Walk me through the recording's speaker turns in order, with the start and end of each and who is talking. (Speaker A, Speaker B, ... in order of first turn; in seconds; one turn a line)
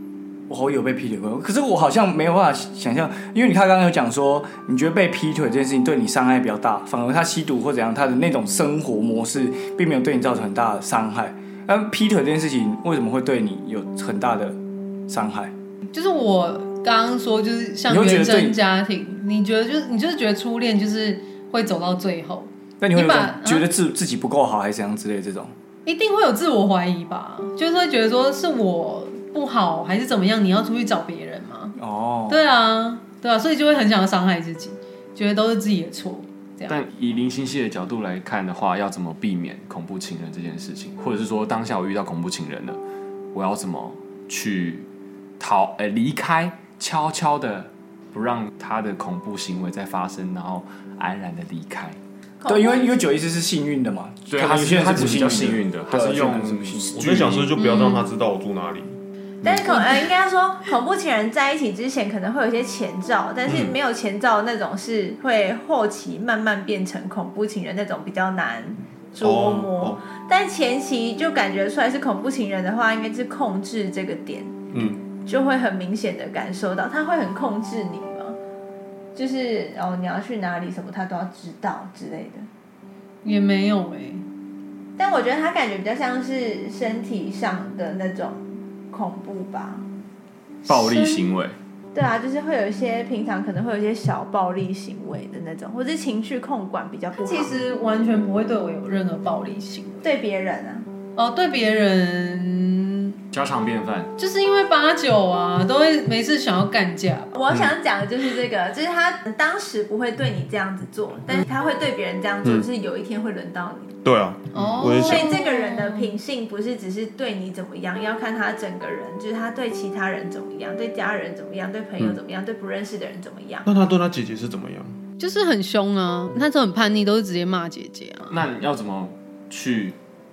Speaker A: 0.5-14.6
Speaker A: 15.1-15.5
Speaker B: 15.9-23.7
Speaker A: 17.9-18.6
Speaker A: 22.8-25.5
Speaker B: 25.9-36.8
Speaker A: 31.8-32.4
Speaker C: 36.7-42.8
Speaker C: 43.3-44.9
Speaker C: 45.4-52.0
Speaker D: 52.4-53.0
Speaker A: 52.5-57.4
Speaker C: 54.3-57.5
Speaker E: 55.0-55.3
Speaker E: 56.2-58.9
Speaker B: 57.6-58.1
Speaker D: 59.4-74.7
Speaker B: 59.7-60.0
Speaker C: 63.5-63.8
Speaker E: 69.2-70.0
Speaker E: 74.7-75.0
Speaker D: 75.2-78.4
Speaker D: 79.2-82.5
Speaker B: 83.2-84.2
Speaker D: 85.0-89.9
Speaker B: 90.7-91.3
Speaker C: 90.7-91.5
Speaker D: 91.9-97.6
Speaker B: 97.2-100.1
Speaker D: 100.0-100.9
Speaker B: 101.2-103.2
Speaker C: 103.3-104.1
Speaker B: 104.2-107.4
Speaker D: 107.3-114.0
Speaker E: 114.0-115.3
Speaker B: 114.5-116.1
Speaker C: 114.5-114.9
Speaker D: 114.9-123.7
Speaker E: 123.7-124.9
Speaker B: 125.2-128.4
Speaker C: 128.3-130.0